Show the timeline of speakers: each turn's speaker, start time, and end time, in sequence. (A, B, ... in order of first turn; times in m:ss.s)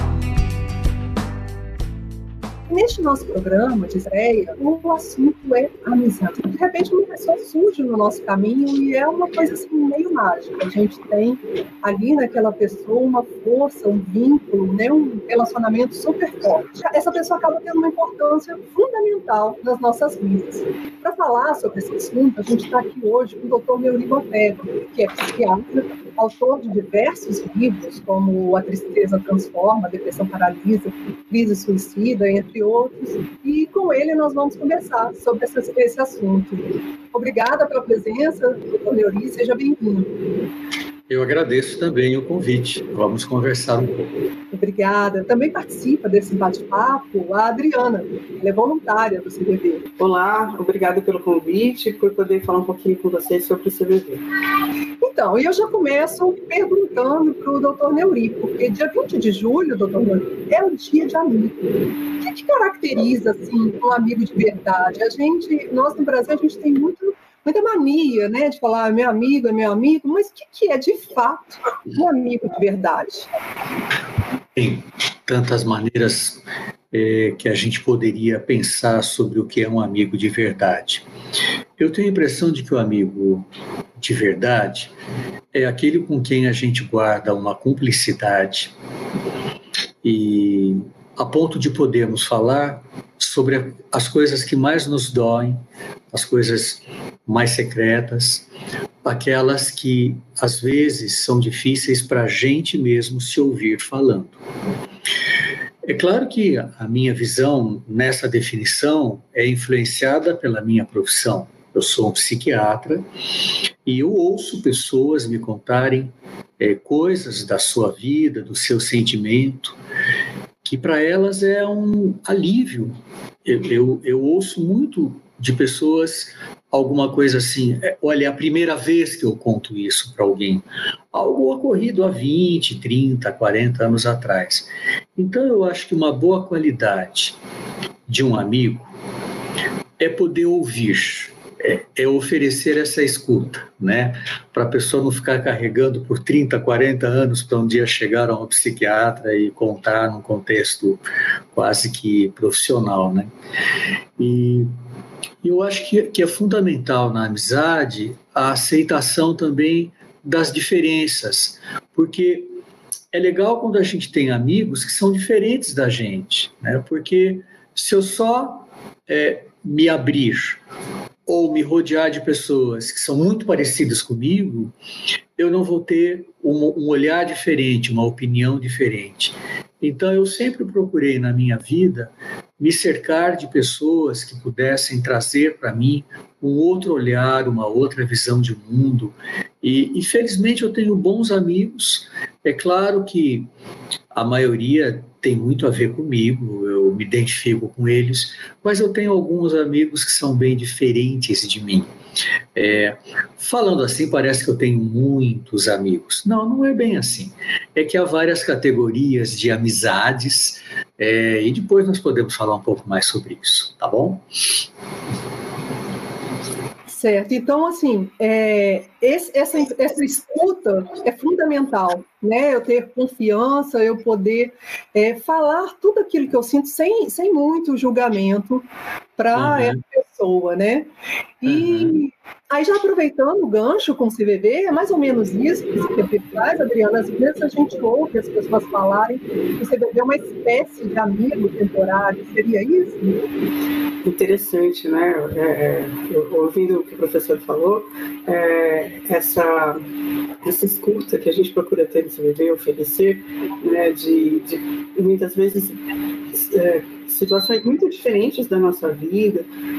0:02.7-0:40.1 A
0:41.1-0:44.2 B
0:44.5-0:49.9 A
0:50.0-0:54.2 C
0:55.0-1:13.3 A
1:14.6-1:21.1 B
1:21.8-1:23.5 B
1:24.0-1:24.9 B
1:25.5-1:28.7 B
1:30.0-1:38.5 B
1:39.0-1:44.4 B
1:45.8-1:53.0 B
1:53.8-1:59.8 B
2:00.6-2:02.9 B
2:03.4-2:17.4 B
2:18.1-2:18.9 B
2:20.0-2:31.0 B
2:31.6-2:33.3 B
2:34.2-2:34.7 B
2:35.4-2:42.5 B
2:43.1-2:50.6 B
2:51.3-2:54.7 B
2:55.4-3:13.5 B
3:14.1-3:21.9 B
3:22.6-3:34.3 B
3:36.9-3:48.7 A
3:49.2-3:50.9 A
3:49.4-3:49.8 B
3:51.4-4:03.2 A
3:51.5-3:52.0 B
4:04.0-4:09.8 C
4:10.4-4:15.8 C
4:16.3-4:19.5 C